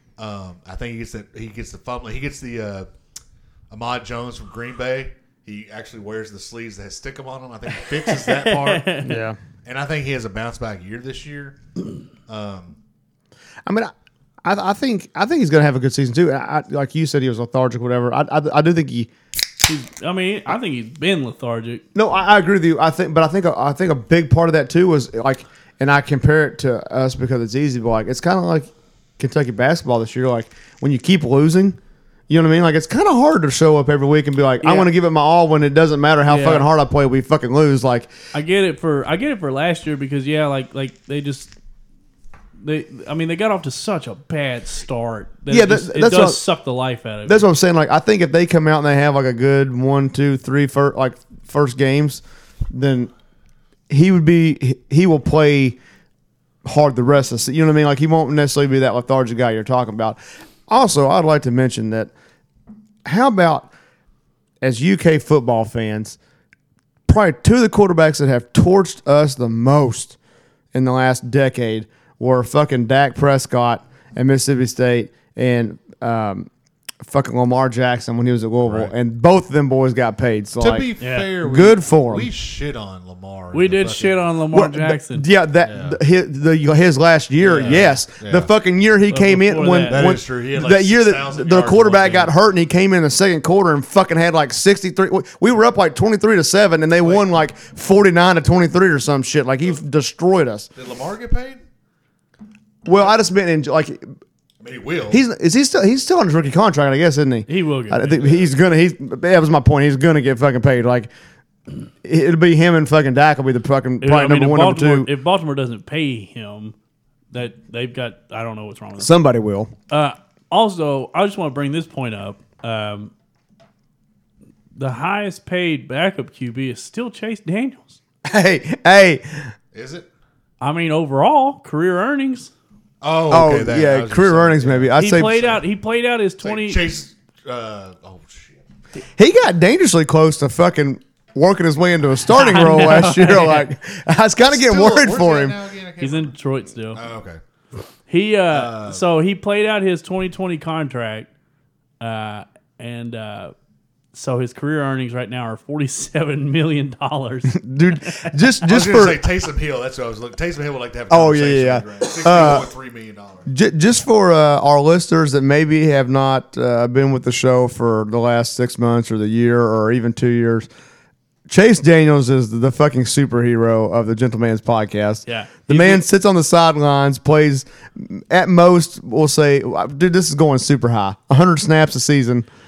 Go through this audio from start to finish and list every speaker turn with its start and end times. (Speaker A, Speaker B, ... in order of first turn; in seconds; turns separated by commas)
Speaker A: 0.2-2.9, Speaker A: 3.7-8.9, Speaker B: 8.1-9.2, Speaker C: 9.0-9.4, Speaker A: 9.6-11.6, Speaker A: 12.3-12.8, Speaker C: 13.7-13.9, Speaker C: 14.4-19.1, Speaker B: 19.6-21.8, Speaker C: 21.9-31.8, Speaker C: 32.3-38.1, Speaker B: 34.6-34.9, Speaker B: 36.3-36.7, Speaker B: 38.3-41.5, Speaker B: 42.6-47.4, Speaker C: 45.5-46.4, Speaker C: 47.2-53.1, Speaker C: 53.9-55.8, Speaker C: 56.6-62.1, Speaker C: 63.0-63.7, Speaker C: 64.6-66.2, Speaker C: 67.1-70.2, Speaker C: 70.7-76.5, Speaker C: 77.0-80.9, Speaker A: 78.6-78.9, Speaker A: 80.6-84.3, Speaker B: 81.0-81.3, Speaker C: 81.4-82.3, Speaker B: 83.5-85.2, Speaker C: 84.5-100.7, Speaker A: 85.6-86.0, Speaker A: 87.4-88.5, Speaker B: 89.1-90.1, Speaker A: 89.9-92.3, Speaker A: 97.0-97.3, Speaker A: 100.8-101.6, Speaker C: 102.8-104.1, Speaker A: 104.6-105.2, Speaker C: 105.1-111.1, Speaker B: 107.5-108.4, Speaker C: 112.0-115.1, Speaker B: 114.0-116.7, Speaker B: 117.3-119.1, Speaker C: 119.0-119.7, Speaker B: 119.9-123.1, Speaker B: 124.7-128.0, Speaker C: 128.2-129.5, Speaker A: 129.7-130.1, Speaker B: 130.6-132.5, Speaker A: 133.0-135.6, Speaker C: 133.3-135.5, Speaker B: 135.0-136.8, Speaker A: 136.4-138.6, Speaker C: 139.2-145.6, Speaker B: 142.3-143.7, Speaker A: 144.5-146.3, Speaker B: 146.0-147.0, Speaker A: 146.9-147.4, Speaker B: 148.1-151.3, Speaker A: 148.5-149.0, Speaker B: 152.0-153.5, Speaker B: 154.1-158.4, Speaker C: 157.5-159.2, Speaker A: 158.6-163.5, Speaker C: 161.1-162.7, Speaker C: 163.5-170.7, Speaker C: 171.5-182.5, Speaker B: 175.3-176.0